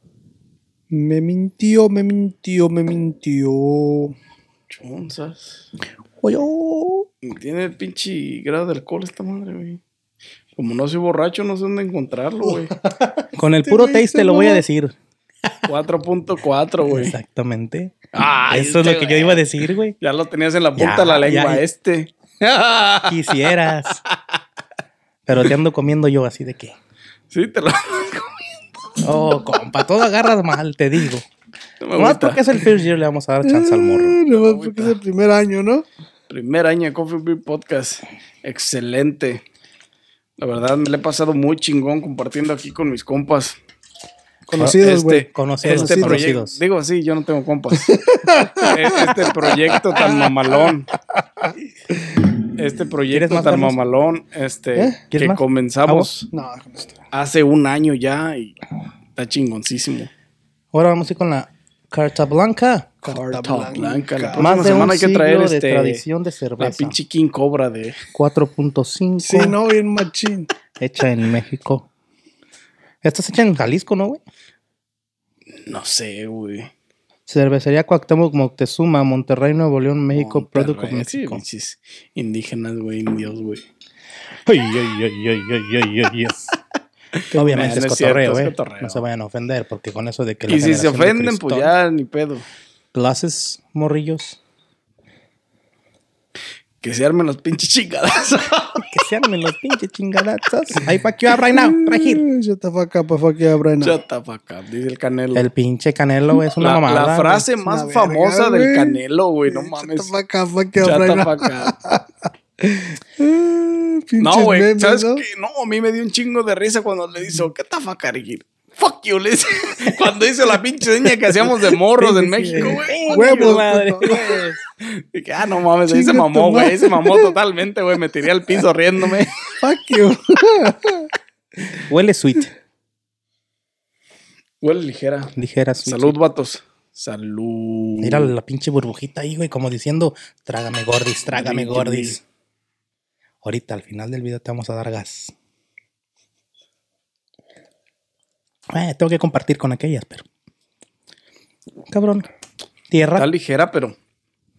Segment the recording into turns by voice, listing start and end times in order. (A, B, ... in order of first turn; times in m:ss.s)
0:00.9-0:04.2 A
0:04.7-0:05.6 B
0:06.2-0:07.1 C
0:07.2-0:09.8 B
0:10.6-0:12.7 B
0:13.3-0:15.0 C
0:13.6-0:14.6 A
0:15.7-0:17.2 B
0:16.8-0:18.0 C
0:18.1-0:19.4 B
0:18.5-0:20.0 C
0:20.0-0:24.2 B
0:20.8-0:21.6 C
0:23.1-0:24.0 C
0:25.3-0:26.8 C
0:27.3-0:29.0 B
0:29.0-0:31.3 C
0:31.8-0:32.5 B
0:32.0-0:34.2 C
0:33.4-0:35.8 A
0:34.3-0:34.9 B
0:36.3-0:39.4 B
0:40.4-0:43.6 B
0:44.5-0:46.3 A
0:44.6-0:46.6 C
0:44.6-0:48.0 B
0:47.8-0:50.3 A
0:48.6-0:50.9 B
0:52.6-0:56.3 B
0:53.1-0:53.8 C
0:55.1-0:56.1 C
0:56.3-0:57.0 A
0:57.1-0:58.6 B
0:59.2-1:00.1 B
1:00.7-1:02.9 C
1:03.0-1:04.9 A
1:03.0-1:06.0 B
1:04.4-1:07.0 C
1:06.6-1:08.0 B
1:08.1-1:09.6 C
1:09.2-1:10.5 A
1:10.8-1:11.9 C
1:13.0-1:14.2 C
1:15.7-1:16.7 B
1:17.3-1:21.4 C
1:20.1-1:23.6 B
1:24.5-1:26.5 C
1:27.3-1:27.8 A
1:27.4-1:31.7 C
1:27.4-1:29.0 B
1:30.5-1:32.4 B
1:32.9-1:34.4 C
1:36.8-1:38.9 B
1:38.8-1:42.2 C
1:41.5-1:44.0 A
1:43.8-1:45.5 B
1:45.3-1:47.5 C
1:46.6-1:50.1 B
1:47.6-1:52.1 A
1:50.8-1:51.7 B
1:52.6-1:55.2 A
1:54.2-2:03.6 B
2:01.4-2:04.2 A
2:02.6-2:04.6 C
2:04.8-2:09.4 B
2:05.9-2:07.4 A
2:09.6-2:11.1 A
2:11.9-2:12.5 C
2:14.6-2:18.3 B
2:15.4-2:16.2 C
2:18.0-2:22.2 C
2:21.4-2:22.2 B
2:23.4-2:25.3 C
2:28.7-2:30.2 C
2:31.9-2:32.3 C
2:32.9-2:33.3 C
2:33.2-2:34.0 B